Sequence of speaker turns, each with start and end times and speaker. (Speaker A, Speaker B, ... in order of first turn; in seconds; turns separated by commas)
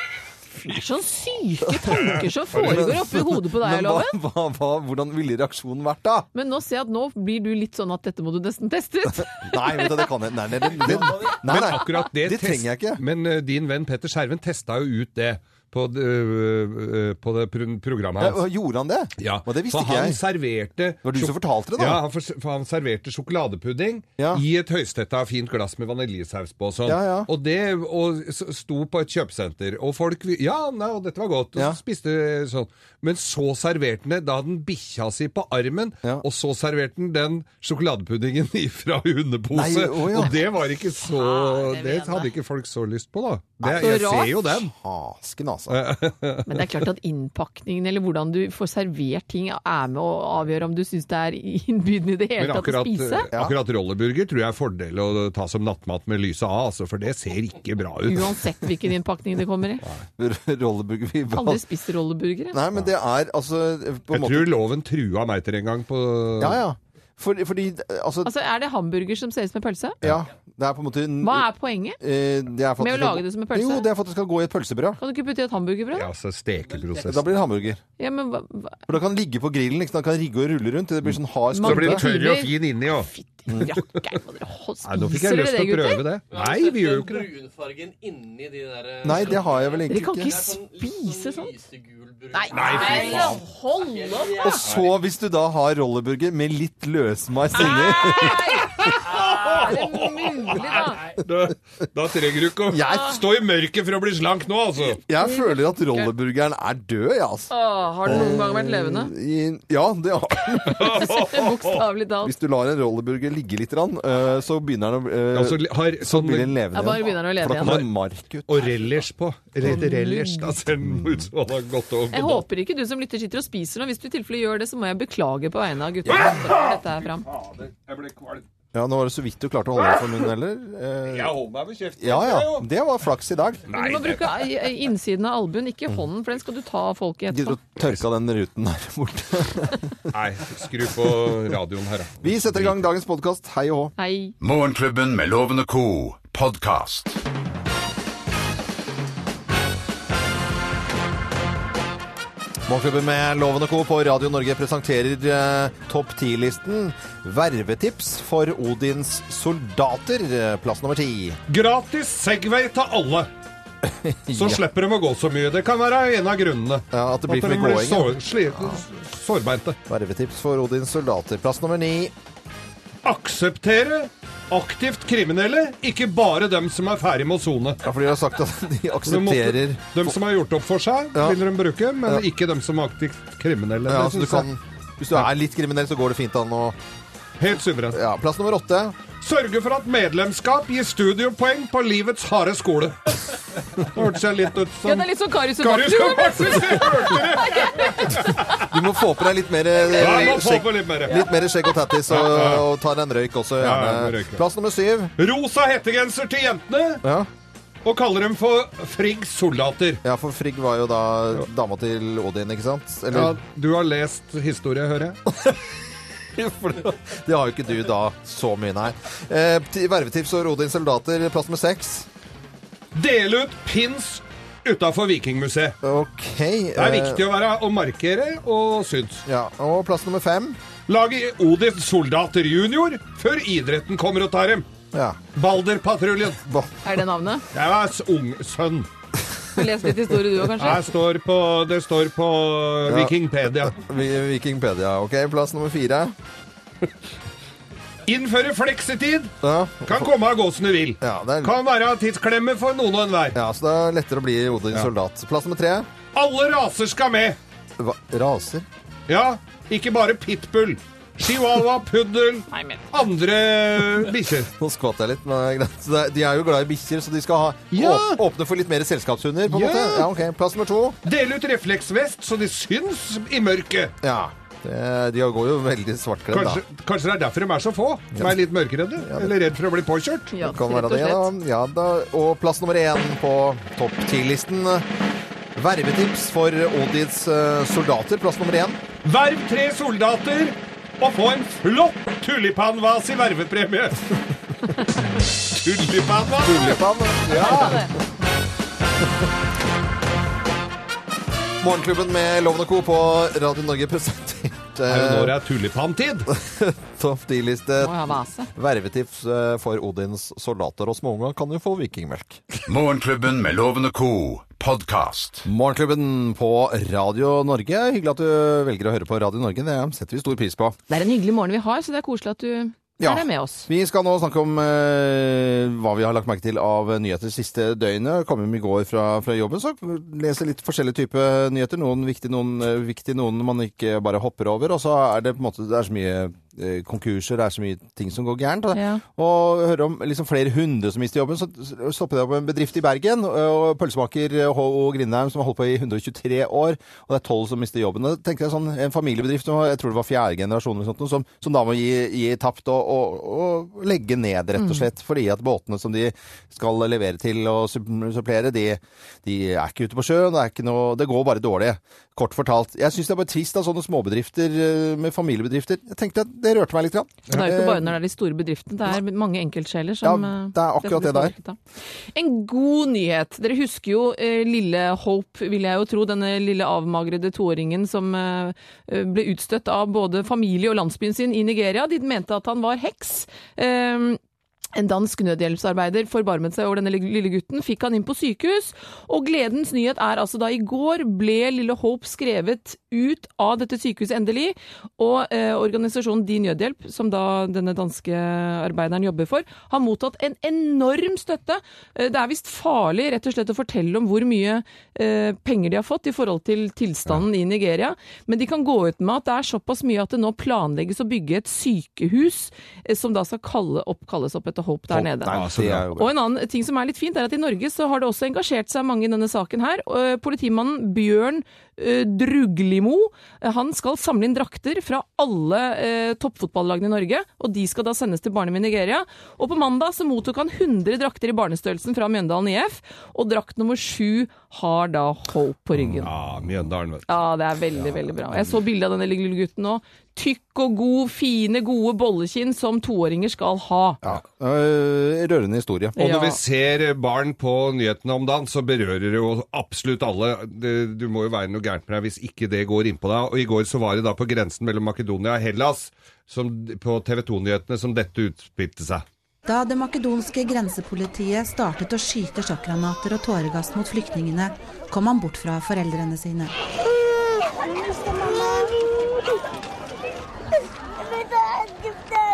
Speaker A: 0.6-4.2, Speaker B: 2.5-2.9, Speaker C: 2.5-6.3, Speaker A: 6.3-10.1, Speaker C: 9.4-13.0, Speaker B: 10.8-18.4, Speaker C: 18.2-20.2, Speaker B: 19.2-44.7, Speaker C: 21.0-22.0, Speaker C: 24.2-24.4, Speaker C: 26.9-27.3, Speaker C: 39.5-40.4, Speaker A: 41.0-42.3, Speaker C: 43.6-45.8, Speaker A: 43.8-44.3, Speaker B: 45.7-46.8, Speaker A: 46.5-53.3, Speaker B: 52.4-58.4, Speaker C: 53.3-53.6, Speaker A: 58.0-59.8, Speaker C: 60.2-61.6, Speaker A: 61.3-62.6, Speaker C: 62.5-64.5, Speaker B: 64.1-66.6, Speaker C: 66.4-68.3, Speaker A: 68.2-70.0, Speaker C: 70.0-75.0, Speaker A: 71.2-72.0, Speaker A: 72.8-73.9, Speaker A: 75.0-76.1, Speaker B: 75.9-77.3, Speaker C: 76.9-77.8, Speaker A: 78.0-78.8, Speaker C: 78.9-82.0, Speaker B: 81.0-83.1, Speaker A: 81.5-86.0, Speaker B: 84.8-87.3, Speaker D: 86.3-94.9, Speaker C: 89.0-90.3, Speaker A: 89.9-91.5, Speaker A: 92.3-94.6, Speaker B: 92.5-93.4, Speaker C: 94.4-98.9, Speaker A: 97.5-101.0, Speaker B: 98.4-105.0, Speaker C: 102.7-103.2, Speaker C: 104.9-107.5, Speaker A: 105.2-106.1, Speaker A: 107.5-109.1, Speaker C: 108.0-111.1, Speaker A: 110.6-112.3, Speaker B: 110.8-111.8, Speaker C: 112.2-119.0, Speaker B: 115.3-116.6, Speaker A: 116.7-117.8, Speaker B: 117.6-117.9, Speaker B: 118.5-122.4, Speaker A: 119.6-120.6, Speaker C: 121.0-121.2, Speaker A: 122.1-127.2, Speaker B: 126.0-128.4, Speaker C: 128.7-131.3, Speaker B: 131.1-132.7, Speaker C: 132.0-133.7, Speaker B: 133.7-134.4, Speaker A: 133.7-137.6, Speaker C: 137.3-139.9, Speaker B: 140.1-142.8, Speaker C: 142.2-143.9, Speaker A: 144.0-144.3, Speaker E: 144.4-147.2, Speaker C: 152.7-161.4, Speaker B: 161.5-163.3, Speaker C: 163.8-164.6, Speaker B: 164.3-169.8, Speaker C: 166.9-168.8, Speaker C: 169.9-172.1, Speaker B: 173.0-177.8, Speaker C: 177.8-180.1, Speaker B: 179.1-184.5, Speaker C: 183.8-186.8, Speaker B: 187.4-188.0, Speaker C: 187.9-189.0, Speaker B: 189.2-198.6, Speaker A: 194.8-198.1, Speaker C: 198.6-205.1, Speaker B: 199.8-201.3, Speaker B: 202.1-202.7, Speaker B: 203.6-204.4, Speaker B: 205.2-207.0, Speaker C: 207.0-207.3, Speaker B: 207.8-210.0, Speaker C: 210.0-213.4, Speaker B: 213.1-215.2, Speaker C: 215.3-215.6, Speaker B: 216.4-216.9, Speaker C: 216.8-222.1, Speaker B: 222.9-225.8, Speaker C: 225.8-227.2, Speaker B: 226.8-229.2, Speaker C: 229.2-230.6, Speaker B: 230.9-234.7, Speaker C: 234.9-235.2, Speaker B: 235.3-236.4, Speaker C: 236.4-236.7, Speaker A: 236.8-237.4, Speaker B: 237.5-238.9, Speaker A: 239.5-240.9, Speaker B: 240.5-243.8, Speaker C: 242.9-246.1, Speaker B: 248.1-249.3, Speaker C: 249.4-250.1, Speaker B: 249.8-253.4, Speaker C: 251.0-251.6, Speaker C: 253.3-255.9, Speaker B: 256.1-257.4, Speaker C: 257.8-258.6, Speaker B: 259.1-264.5, Speaker A: 262.5-262.8, Speaker C: 264.4-271.0, Speaker B: 267.7-268.2, Speaker B: 269.5-270.1, Speaker B: 271.0-273.9, Speaker C: 274.0-276.6, Speaker B: 276.3-280.3, Speaker C: 279.0-279.3, Speaker A: 280.3-281.3, Speaker C: 280.4-284.9, Speaker C: 285.6-288.8, Speaker B: 289.0-294.1, Speaker B: 295.5-297.8, Speaker C: 296.4-297.9, Speaker A: 297.4-297.9, Speaker C: 301.6-305.4, Speaker B: 304.9-306.3, Speaker C: 306.3-312.6, Speaker A: 307.8-308.5, Speaker E: 312.7-315.5, Speaker C: 315.4-320.8, Speaker A: 320.9-323.7, Speaker C: 323.0-367.9, Speaker A: 338.7-339.0, Speaker A: 354.6-354.8, Speaker A: 367.3-371.6, Speaker C: 370.0-371.3, Speaker A: 372.1-384.2, Speaker A: 384.7-415.4, Speaker C: 414.9-416.1, Speaker B: 415.3-415.9, Speaker A: 415.9-436.1, Speaker B: 435.9-437.2, Speaker A: 437.1-444.0, Speaker C: 444.0-446.1, Speaker A: 446.0-446.4, Speaker B: 446.0-459.0, Speaker F: 459.4-466.5